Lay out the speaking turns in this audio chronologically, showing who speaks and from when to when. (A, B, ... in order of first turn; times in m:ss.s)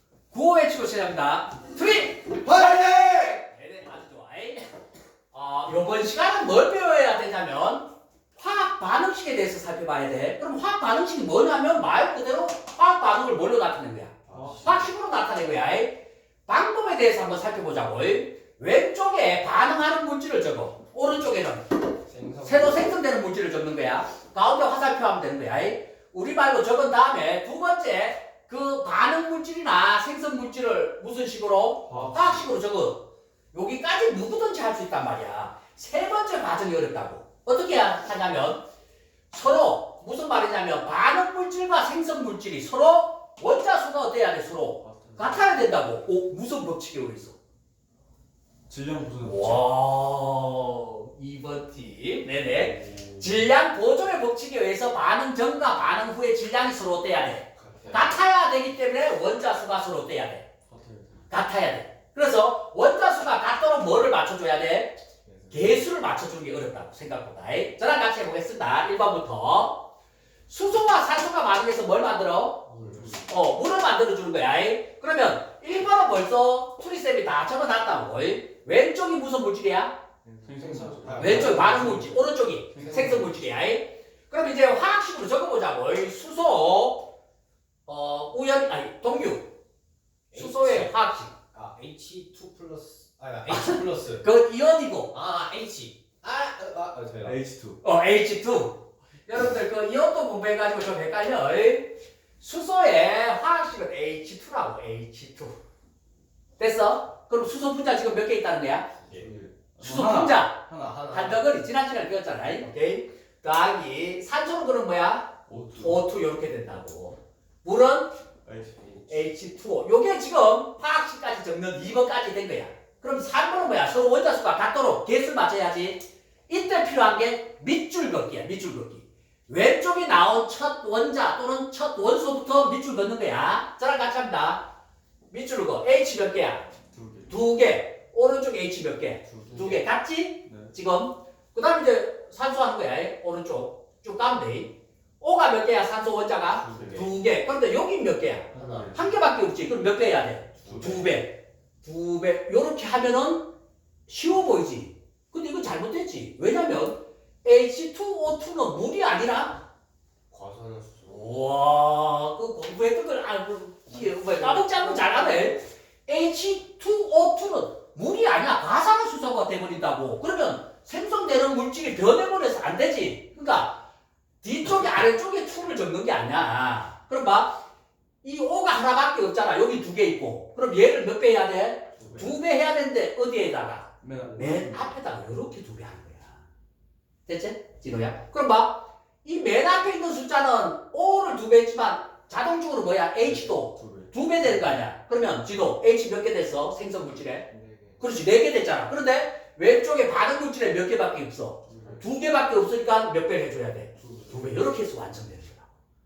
0:00.3-0:04.6 A
0:02.5-0:03.1 B
0:05.3-0:21.8 A
0:14.3-0:14.8 B
0:14.3-0:14.9 C
0:22.0-0:22.9 B
0:22.4-0:38.6 A
0:31.8-0:32.5 C
0:39.3-0:47.4 A
0:44.8-0:45.6 C
0:48.7-0:49.6 C
0:49.2-1:00.4 A
0:52.5-0:53.4 C
0:57.6-0:58.1 B
1:00.7-1:01.3 C
1:01.3-1:05.0 A
1:05.2-1:05.8 C
1:05.5-1:09.9 A
1:10.5-1:12.6 A
1:12.7-1:13.2 B
1:12.9-1:13.3 C
1:13.2-1:20.0 A
1:20.2-1:22.2 C
1:20.6-1:22.0 B
1:21.2-1:27.1 A
1:22.7-1:23.4 C
1:22.7-1:23.3 B
1:27.8-1:29.5 A
1:30.3-1:30.9 B
1:30.3-1:31.3 A
1:31.5-1:34.2 B
1:33.5-1:35.1 A
1:35.1-1:37.4 B
1:37.2-1:37.8 C
1:37.8-1:45.5 A
1:46.6-1:48.9 A
1:49.0-1:49.3 B
1:49.1-1:51.2 C
1:49.8-1:58.1 A
1:50.7-1:51.4 B
1:55.5-1:56.0 C
1:58.4-1:58.8 C
1:58.8-1:59.2 B
1:59.1-2:14.6 A
2:15.3-2:16.7 A
2:16.9-2:17.3 C
2:17.3-2:33.5 A
2:19.3-2:19.8 C
2:20.4-2:20.7 C
2:26.6-2:27.1 C
2:26.6-2:27.1 B
2:28.5-2:29.2 B
2:28.5-2:29.1 C
2:30.6-2:31.0 B
2:30.6-2:31.1 C
2:34.1-2:39.6 A
2:40.3-2:41.3 B
2:41.0-2:53.8 A
2:44.0-2:45.6 B
2:54.4-2:57.6 A
2:58.2-3:06.4 A
3:02.0-3:02.3 B
3:04.0-3:04.9 C
3:07.3-3:17.5 A
3:13.2-3:14.1 C
3:17.5-3:18.0 C
3:18.0-3:25.7 A
3:21.6-3:22.0 C
3:24.0-3:24.5 C